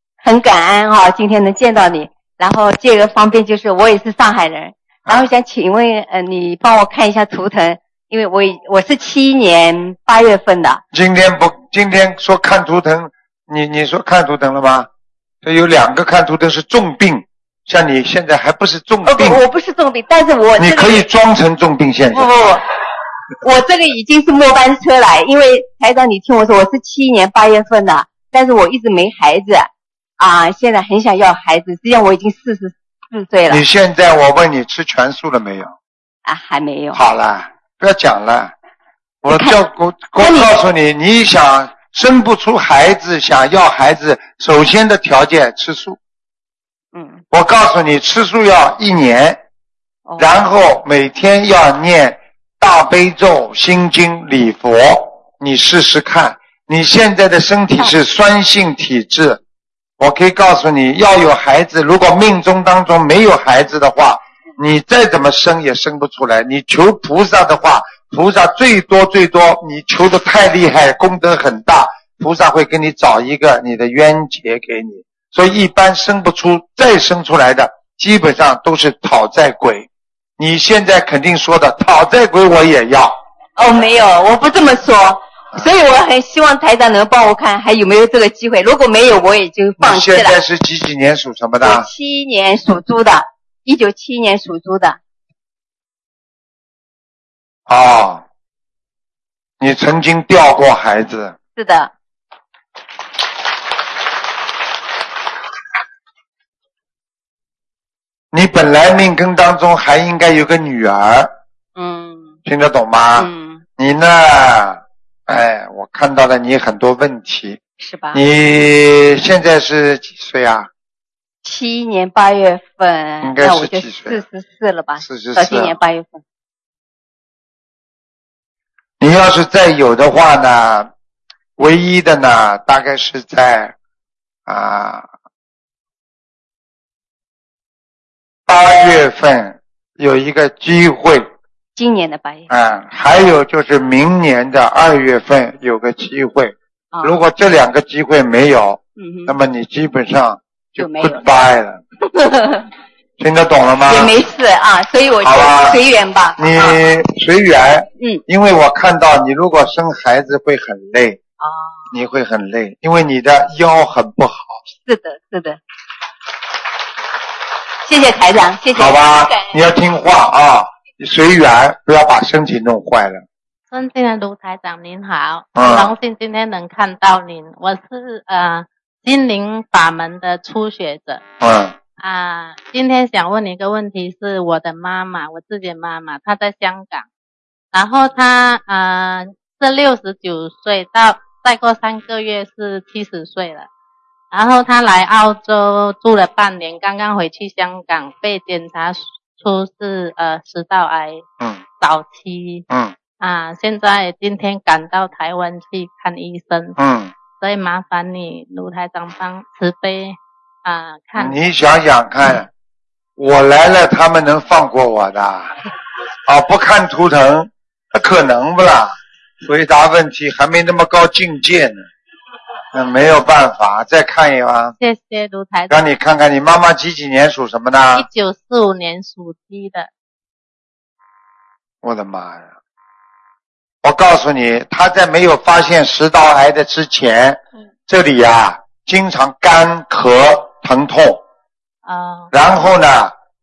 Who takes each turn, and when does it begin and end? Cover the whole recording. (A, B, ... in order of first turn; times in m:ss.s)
0:00.2-0:10.8 A
0:10.9-0:14.9 B
0:15.4-0:19.4 B
0:19.0-0:21.0 A
0:20.6-0:22.4 B
0:22.1-0:22.6 A
0:23.4-0:33.6 A
0:33.5-0:35.7 B
0:36.2-0:37.0 A
0:36.9-0:38.5 B
0:39.2-0:46.0 B
0:39.3-0:39.6 A
0:40.2-0:40.5 A
0:46.9-0:47.2 A
0:47.3-0:49.4 B
0:50.2-0:59.4 B
1:00.0-1:23.2 B
1:23.6-1:30.4 A
1:29.8-1:31.9 B
1:31.6-1:35.0 A
1:37.7-1:38.2 B
1:39.6-1:41.4 B
1:41.6-1:41.9 A
1:48.3-1:51.3 B
1:51.8-1:52.4 A
1:52.4-1:57.6 B
1:53.2-1:53.6 A
1:57.8-1:58.2 A
1:58.1-2:00.7 B
2:01.4-2:06.2 A
2:03.2-2:04.2 B
2:05.0-2:05.8 B
2:09.0-2:10.9 B
2:11.6-2:13.7 B
2:14.4-2:15.1 B
2:18.5-2:21.3 B
2:21.8-2:22.5 A
2:22.5-2:31.8 B
2:26.9-2:27.2 A
2:29.0-2:29.4 A
2:30.8-2:31.2 A
2:32.1-2:32.7 A
2:33.2-2:34.1 B
2:33.9-2:36.8 A
2:35.2-2:35.8 B
2:36.4-2:41.2 B
2:41.4-2:41.9 A
2:41.9-2:44.6 B
2:44.8-2:45.6 A
2:47.8-2:49.5 A
2:48.7-2:53.2 B
2:53.7-3:01.2 C
2:55.6-2:55.9 B
3:01.4-3:01.8 B
3:02.0-3:07.1 C
3:07.7-3:13.7 C
3:14.3-3:21.2 C
3:21.8-3:22.6 C
3:22.7-3:22.9 B
3:23.2-3:26.8 C
3:26.8-3:27.1 B
3:27.4-3:31.4 C
3:31.2-3:32.5 B
3:33.2-3:35.5 B
3:36.2-3:41.8 B
3:42.7-3:44.8 B
3:44.8-3:45.8 C
3:45.7-3:48.1 B
3:47.9-3:49.9 C
3:51.8-3:52.5 B
3:53.8-4:01.2 B
4:01.8-4:02.3 C
4:02.3-4:03.1 B